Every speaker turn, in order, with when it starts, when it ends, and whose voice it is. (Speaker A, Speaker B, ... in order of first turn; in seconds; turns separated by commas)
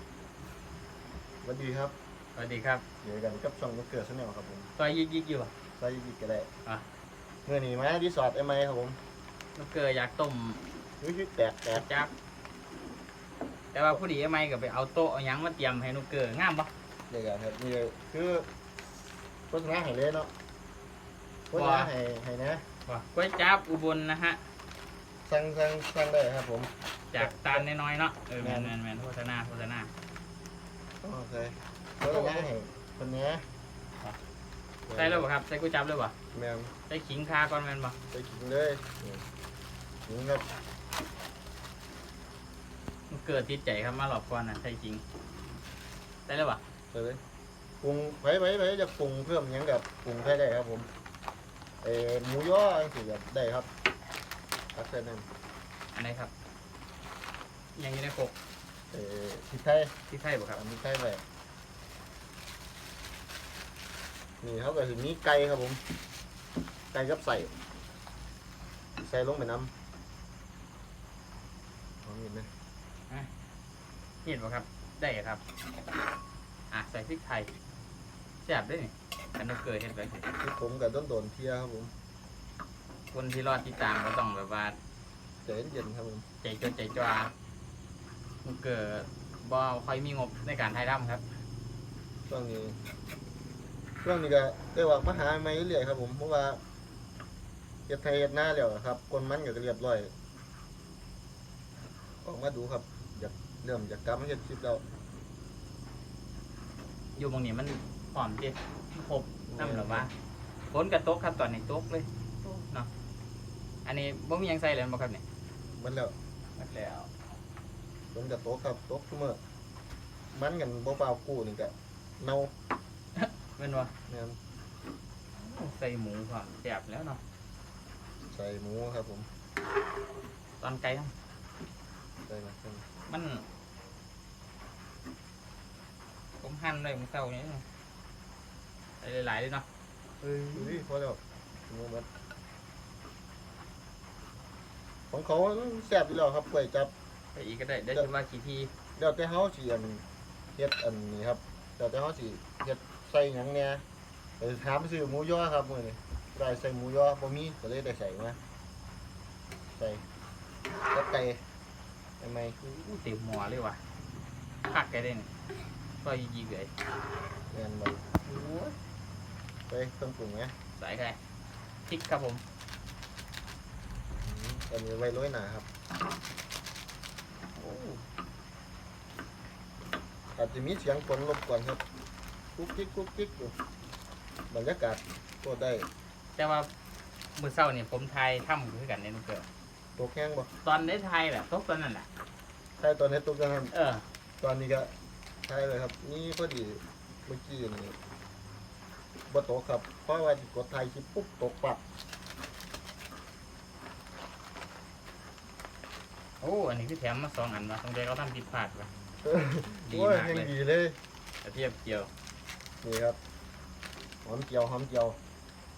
Speaker A: 1.4-1.9, Speaker B: 2.4-2.8, Speaker A: 3.0-4.7, Speaker B: 4.8-5.5, Speaker A: 5.7-6.5, Speaker A: 7.4-9.0, Speaker B: 9.5-10.7, Speaker A: 11.0-11.8, Speaker B: 11.7-12.1, Speaker B: 13.7-16.7, Speaker A: 17.1-18.5, Speaker A: 19.5-20.3, Speaker A: 21.5-22.6, Speaker B: 21.5-21.9, Speaker B: 22.8-24.5, Speaker A: 25.2-27.6, Speaker B: 27.1-29.9, Speaker A: 28.4-28.7, Speaker A: 31.0-33.5, Speaker B: 32.0-32.5, Speaker A: 34.9-35.3, Speaker B: 35.0-36.1, Speaker A: 36.3-36.7, Speaker B: 36.9-38.0, Speaker A: 38.1-39.2, Speaker A: 40.0-40.5, Speaker B: 43.1-45.0, Speaker B: 46.3-46.6, Speaker A: 46.9-47.2, Speaker A: 47.8-50.9, Speaker A: 51.8-53.7, Speaker A: 54.7-55.3, Speaker B: 55.9-56.3, Speaker B: 57.8-58.3, Speaker A: 58.9-59.9, Speaker B: 60.1-60.6, Speaker A: 60.5-61.2, Speaker A: 64.4-65.8, Speaker A: 66.9-67.5, Speaker A: 69.0-69.7, Speaker A: 72.0-72.5, Speaker B: 74.2-75.4, Speaker B: 76.7-77.5, Speaker B: 78.4-80.3, Speaker A: 80.4-81.9, Speaker B: 83.1-84.8, Speaker A: 85.4-86.2, Speaker B: 86.4-87.3, Speaker B: 88.4-91.2, Speaker A: 92.3-92.8, Speaker A: 94.0-96.6, Speaker A: 97.9-100.1, Speaker A: 102.2-104.8, Speaker B: 107.2-110.1, Speaker A: 109.5-110.1, Speaker B: 110.7-112.9, Speaker B: 113.8-115.2, Speaker A: 115.7-116.1, Speaker B: 116.6-117.1, Speaker A: 118.1-119.4, Speaker A: 120.3-122.5, Speaker B: 123.2-123.9, Speaker A: 124.1-124.4, Speaker B: 125.3-127.2, Speaker A: 128.2-129.3, Speaker B: 130.6-131.1, Speaker A: 132.2-132.8, Speaker B: 133.1-133.4, Speaker B: 136.4-137.6, Speaker B: 139.0-139.7, Speaker B: 140.2-140.8, Speaker A: 140.5-142.1, Speaker A: 145.1-146.9, Speaker B: 147.3-148.7, Speaker A: 149.0-150.0, Speaker A: 150.5-153.8, Speaker A: 154.4-158.4, Speaker A: 159.7-160.0, Speaker A: 160.9-161.4, Speaker A: 162.2-162.6, Speaker B: 162.6-163.8, Speaker B: 164.7-166.7, Speaker A: 167.5-168.2, Speaker B: 168.2-168.7, Speaker A: 169.7-170.5, Speaker B: 170.8-171.2, Speaker B: 171.9-172.4, Speaker A: 174.2-175.7, Speaker B: 177.6-178.0, Speaker A: 180.3-181.8, Speaker A: 182.6-183.6, Speaker A: 184.5-185.9, Speaker B: 186.3-186.7, Speaker B: 187.3-189.4, Speaker A: 190.0-190.5, Speaker B: 190.6-192.1, Speaker A: 192.8-193.7, Speaker B: 193.7-194.1, Speaker A: 194.4-194.9, Speaker A: 195.4-197.9, Speaker A: 199.3-201.8, Speaker B: 206.4-208.9, Speaker A: 209.2-211.0, Speaker B: 209.8-210.5, Speaker B: 211.4-212.1, Speaker A: 212.8-213.2, Speaker A: 214.2-215.2